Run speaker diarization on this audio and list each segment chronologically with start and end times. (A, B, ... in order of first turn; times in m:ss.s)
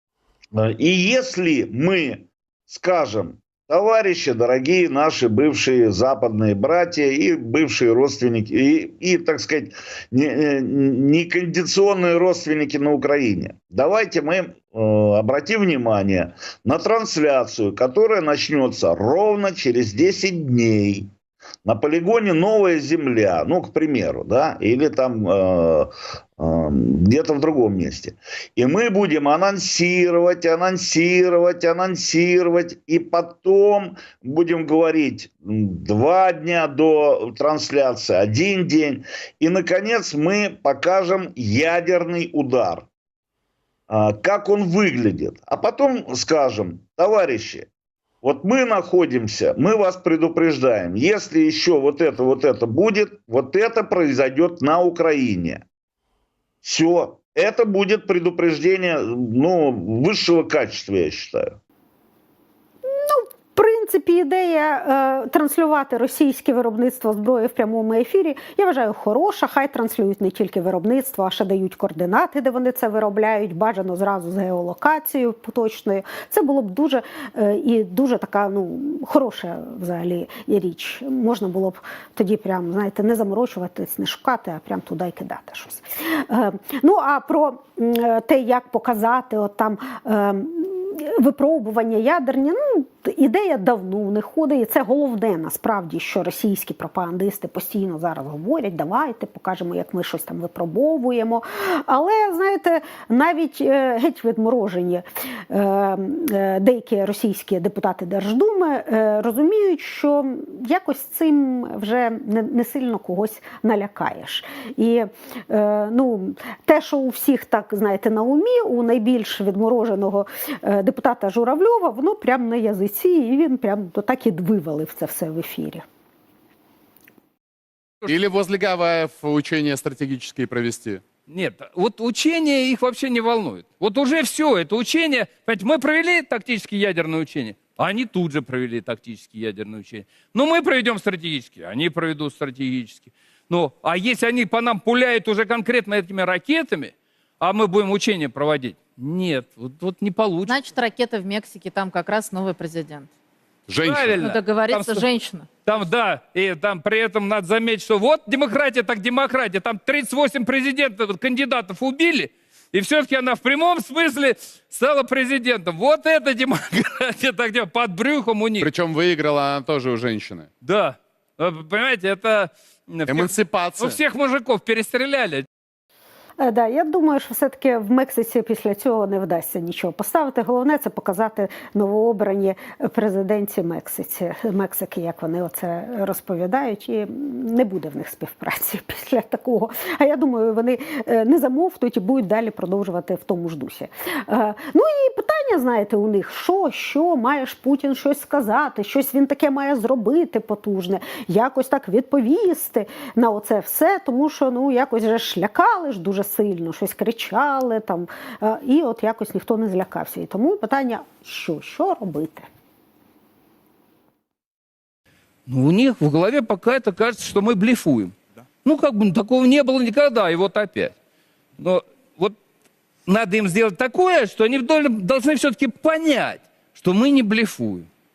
0:00.6-0:21.1 A
0:21.6-0:42.9 A
0:43.9-0:47.7 A
0:48.2-0:55.6 A
0:56.6-1:01.6 A
1:02.8-2:05.8 B
2:08.0-2:11.0 C
2:11.3-2:30.5 D
2:30.5-2:33.1 E
2:33.7-2:34.4 C
2:33.8-2:35.1 D
2:34.2-2:35.5 E
2:35.6-2:48.7 D
2:48.6-2:50.5 C
2:50.6-2:55.5 D
2:53.1-2:54.0 C
2:56.4-3:32.5 B
3:35.5-3:40.9 D
3:41.6-3:42.4 D
3:43.1-3:47.9 D